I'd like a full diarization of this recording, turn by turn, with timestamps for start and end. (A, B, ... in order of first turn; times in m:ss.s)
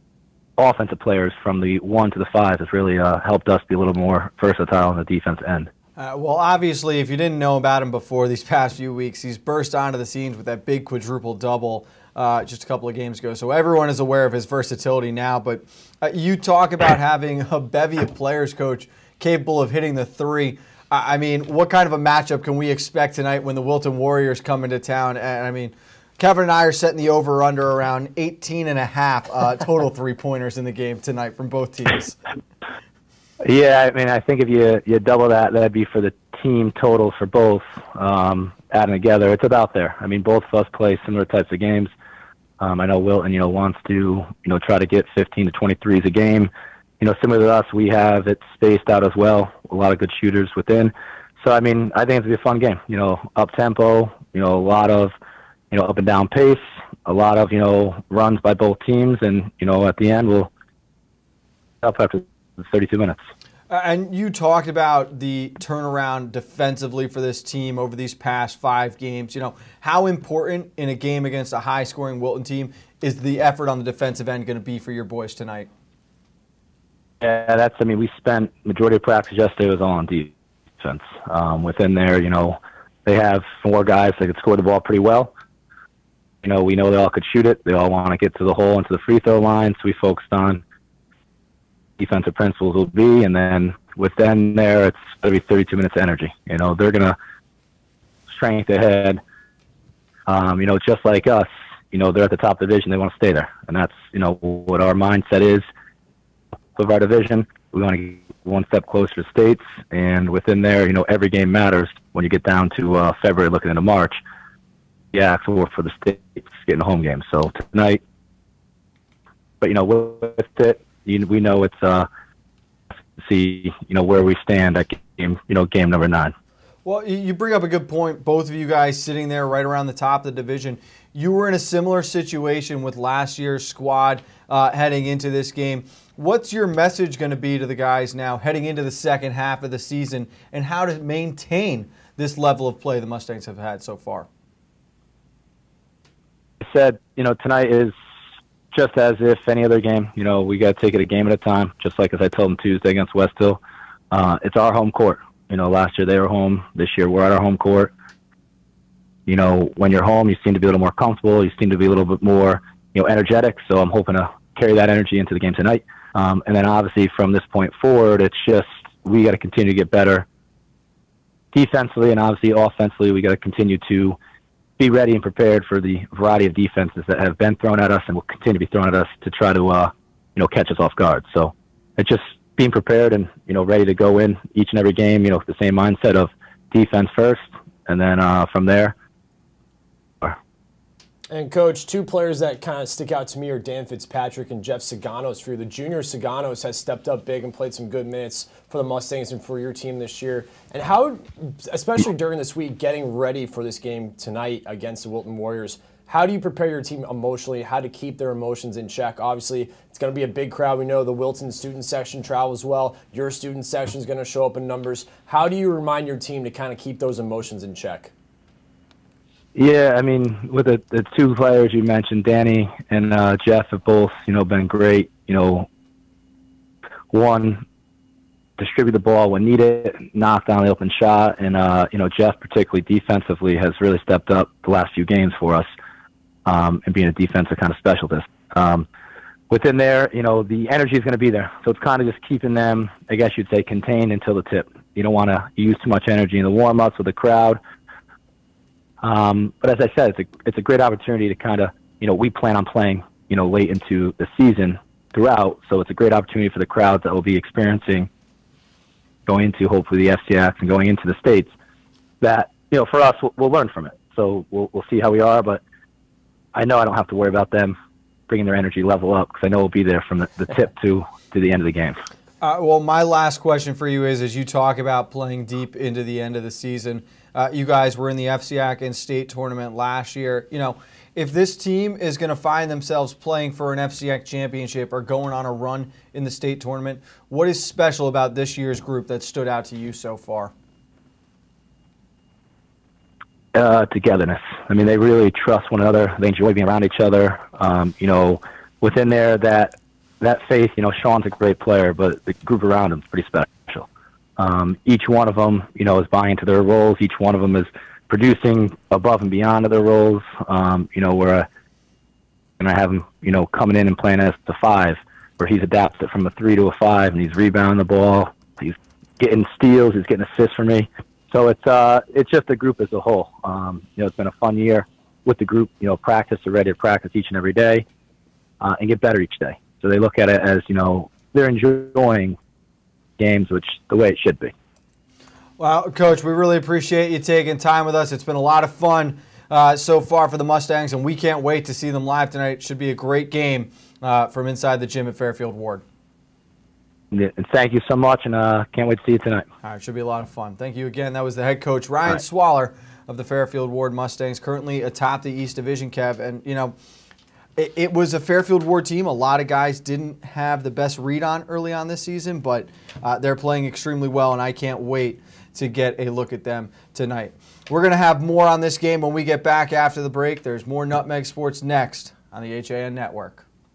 0:00.6-0:05.7 A
0:06.0-0:32.2 B
0:33.4-0:41.9 A
0:42.6-0:46.5 A
0:47.0-0:55.1 A
0:55.7-1:00.5 A
1:01.8-1:03.2 A
1:03.7-1:15.7 B
1:17.2-1:25.3 A
1:26.4-1:30.6 A
1:32.0-1:37.2 A
1:38.3-1:39.2 A
1:40.3-1:45.6 A
1:46.8-1:54.2 A
1:55.1-1:58.0 A
1:59.6-2:02.1 A
2:03.2-2:06.3 A
2:06.8-2:24.3 B
2:26.6-2:27.9 A
2:28.7-2:33.6 A
2:34.1-2:37.9 A
2:39.3-2:50.2 A
2:51.5-2:54.2 A
2:54.8-3:08.9 A
3:11.3-3:38.1 C
3:39.5-3:45.7 A
3:47.1-3:47.6 A
3:48.6-3:55.7 A
3:56.4-3:58.8 A
3:59.5-4:07.6 A
4:09.0-4:18.1 A
4:19.3-4:21.5 A
4:22.2-4:25.6 A
4:26.5-4:27.8 A
4:28.3-4:32.0 A
4:32.4-4:50.5 B
4:53.5-5:03.9 A
5:04.4-5:11.5 A
5:12.6-5:27.8 A
5:28.6-5:32.4 A
5:33.2-5:34.5 A
5:35.6-5:45.8 B
5:47.1-5:49.4 A
5:49.6-5:56.8 B
5:57.6-6:13.4 B